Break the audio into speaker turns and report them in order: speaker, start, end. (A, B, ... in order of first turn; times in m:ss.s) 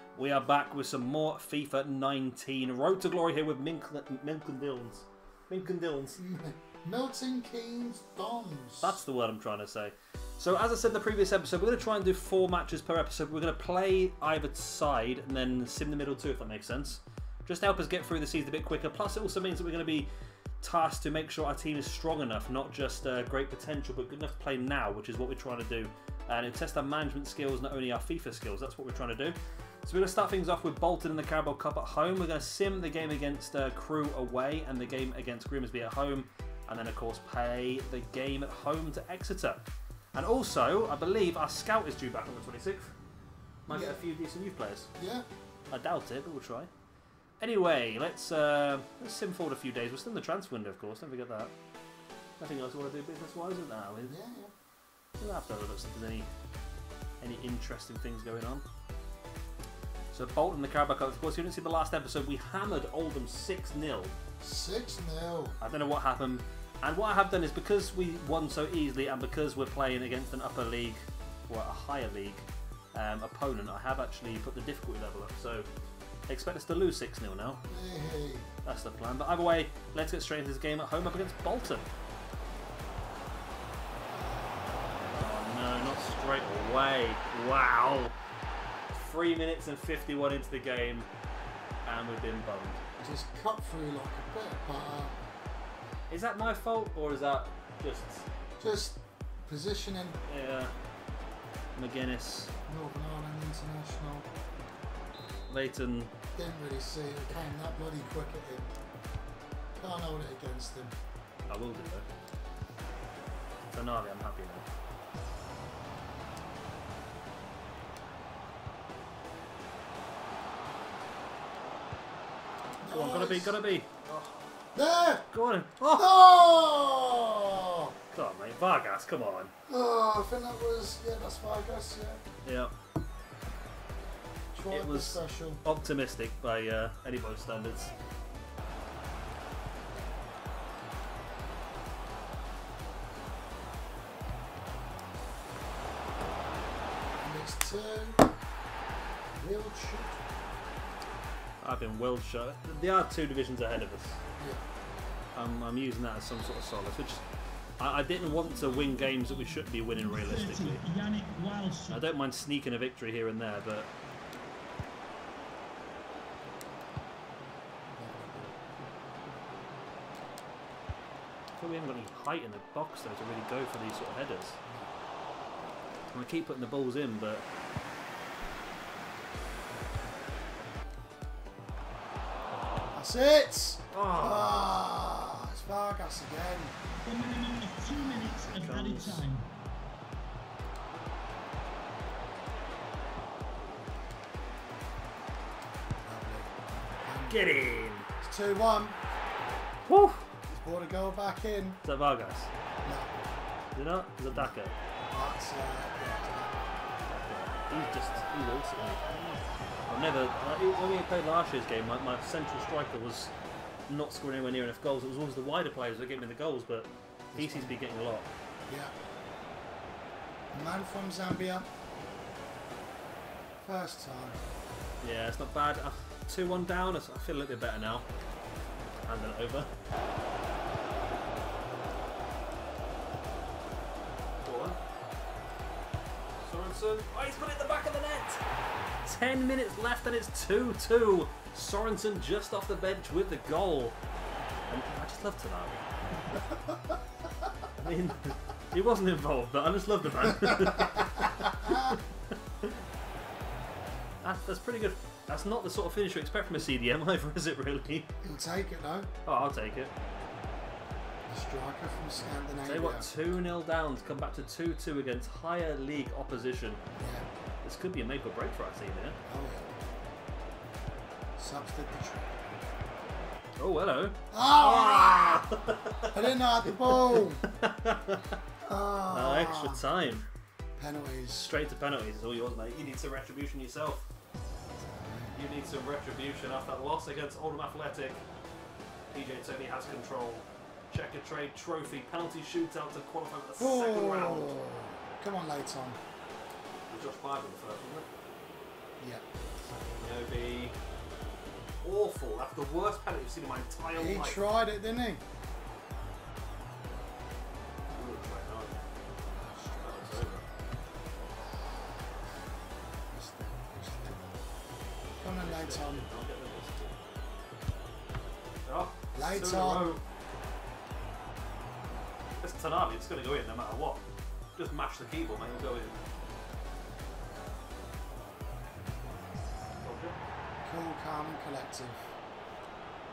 0:00.1-0:06.2 A
0:06.2-0:09.0 B
0:08.8-0:20.1 A
0:20.6-0:39.6 A
0:40.1-0:42.9 A
0:43.6-0:44.9 A
0:43.7-0:44.0 B
0:45.0-0:45.2 B
0:45.7-0:46.7 A
0:47.4-0:51.5 A
0:52.4-0:54.1 A
0:54.1-0:54.5 B
0:55.2-0:56.3 A
0:57.2-0:58.6 A
1:00.1-1:04.1 A
1:04.4-1:05.6 B
1:05.6-1:15.7 A
1:16.3-1:17.6 A
1:17.7-1:18.5 B
1:18.6-1:21.9 A
1:24.1-1:24.9 B
1:25.1-1:28.1 A
1:28.9-1:31.1 A
1:31.8-1:32.8 A
1:33.0-1:35.2 B
1:36.1-1:38.2 A
1:38.6-1:40.2 B
1:40.3-1:40.7 A
1:41.7-1:42.5 A
1:42.7-1:44.2 B
1:45.5-1:46.1 A
1:46.3-1:48.7 B
1:49.7-1:50.9 B
1:51.5-1:52.0 A
1:53.7-1:54.6 A
2:02.8-2:03.6 B
2:02.9-2:04.4 A
2:04.7-2:05.2 B
2:05.3-2:06.1 A
2:05.9-2:07.9 B
2:08.1-2:09.5 A
2:09.7-2:12.2 B
2:12.4-2:12.7 A
2:14.5-2:15.6 B
2:14.7-2:17.9 A
2:27.2-2:28.3 B
2:29.4-2:30.2 B
2:31.6-2:34.2 A
2:34.4-2:34.6 B
2:35.3-2:37.2 A
2:37.8-2:40.8 A
2:39.8-2:42.0 C
2:41.9-2:43.9 A
2:48.0-2:48.5 B
2:51.6-2:54.6 A
2:56.1-2:57.4 A
3:02.9-3:06.8 B
3:03.9-3:04.7 A
3:07.0-3:09.4 C
3:08.5-3:09.3 A
3:16.0-3:17.4 B
3:17.3-3:18.1 A
3:18.2-3:19.0 B
3:19.9-3:20.3 A
3:20.5-3:21.8 B
3:21.8-3:22.5 A
3:22.8-3:23.1 B
3:23.7-3:24.7 A
3:25.1-3:26.6 B
3:27.0-3:33.3 A
3:33.9-3:38.3 A
3:37.3-3:37.8 B
3:38.7-3:38.9 B
3:40.5-3:41.7 B
3:43.6-3:44.5 B
3:45.0-3:48.0 A
3:49.1-3:49.7 A
3:54.4-3:54.8 A
3:56.4-3:58.4 A
3:59.0-4:04.0 A
4:04.7-4:05.8 A
4:06.3-4:06.8 B
4:07.8-4:12.8 A
4:10.5-4:12.0 B
4:14.2-4:18.1 A
4:18.2-4:19.1 B
4:19.2-4:19.9 A
4:21.3-4:23.1 B
4:22.6-4:26.8 A
4:27.0-4:27.3 B
4:27.6-4:29.2 A
4:29.3-4:29.7 B
4:31.4-4:32.3 B
4:33.6-4:38.4 A
4:34.3-4:35.5 B
4:36.1-4:37.4 B
4:38.6-4:39.8 B
4:39.1-4:40.3 A
4:40.8-4:41.5 B
4:41.4-4:44.1 A
4:44.8-4:45.4 B
4:45.3-4:48.2 A
4:49.1-4:54.6 A
4:53.6-4:56.0 B
4:56.9-4:58.1 A
4:59.0-4:59.2 B
4:59.5-5:00.8 A
5:01.8-5:04.4 A
5:03.9-5:05.2 B
5:07.9-5:08.8 A
5:09.3-5:10.5 B
5:09.8-5:10.4 A
5:13.1-5:14.4 B
5:15.2-5:16.1 B
5:15.3-5:17.0 A
5:18.6-5:20.0 A
5:19.1-5:19.9 B
5:22.4-5:24.0 A
5:24.6-5:26.0 A
5:29.8-5:30.2 A
5:30.6-5:32.2 B